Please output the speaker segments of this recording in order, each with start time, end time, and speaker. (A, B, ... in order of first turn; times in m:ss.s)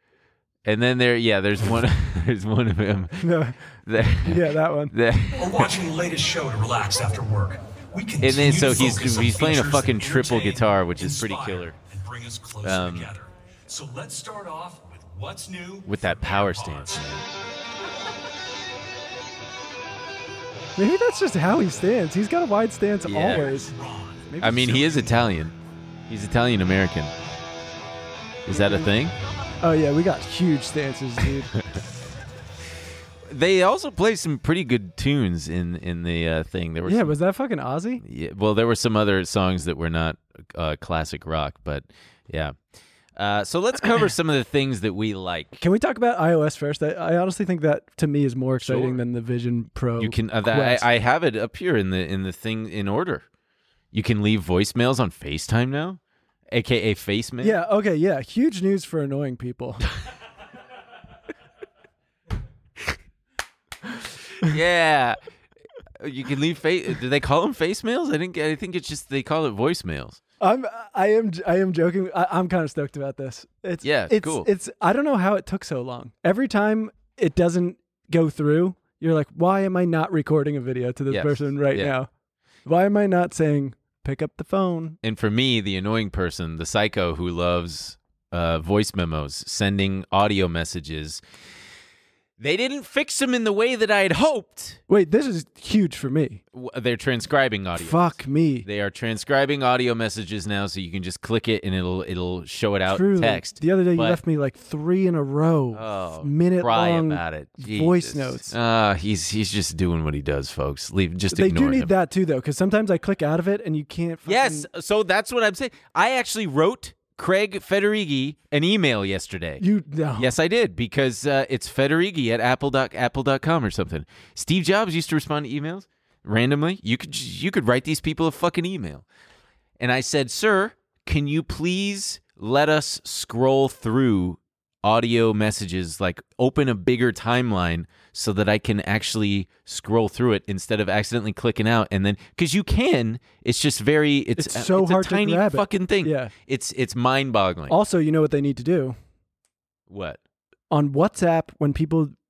0:00.6-0:03.2 A
0:03.2-0:04.9 B
0:03.8-0:05.7 A
0:05.3-0:17.1 C
0:08.2-0:11.7 A
0:12.6-0:13.1 A
0:15.9-0:17.3 A
0:20.8-0:23.7 B
0:23.0-0:23.5 A
0:23.2-0:25.2 C
0:24.2-0:25.1 B
0:24.4-0:25.5 A
0:26.1-0:27.1 A
0:28.4-0:29.1 A
0:28.5-0:28.9 B
0:29.6-0:31.5 B
0:33.3-0:37.2 A
0:36.8-0:38.0 B
0:38.0-0:42.5 A
0:43.2-0:45.6 A
0:45.6-0:50.8 B
0:48.6-0:49.0 A
0:50.0-0:53.2 A
0:53.9-0:56.0 A
0:56.5-0:57.6 A
0:57.4-0:59.8 B
1:04.4-1:05.2 A
1:06.0-1:10.2 A
1:10.4-1:22.1 B
1:13.8-1:14.5 A
1:21.1-1:21.9 A
1:22.6-1:25.0 B
1:25.0-1:31.2 A
1:32.4-1:34.8 A
1:34.9-1:36.4 B
1:36.5-1:44.2 A
1:37.8-1:38.7 B
1:42.9-1:48.6 B
1:45.7-1:51.9 A
1:51.3-1:54.7 B
1:54.2-1:59.6 A
1:59.6-2:00.3 B
2:00.2-2:09.0 A
2:09.8-2:27.8 A
2:24.4-2:26.3 B
2:27.7-2:29.0 B
2:29.9-2:30.2 A
2:30.7-2:32.1 B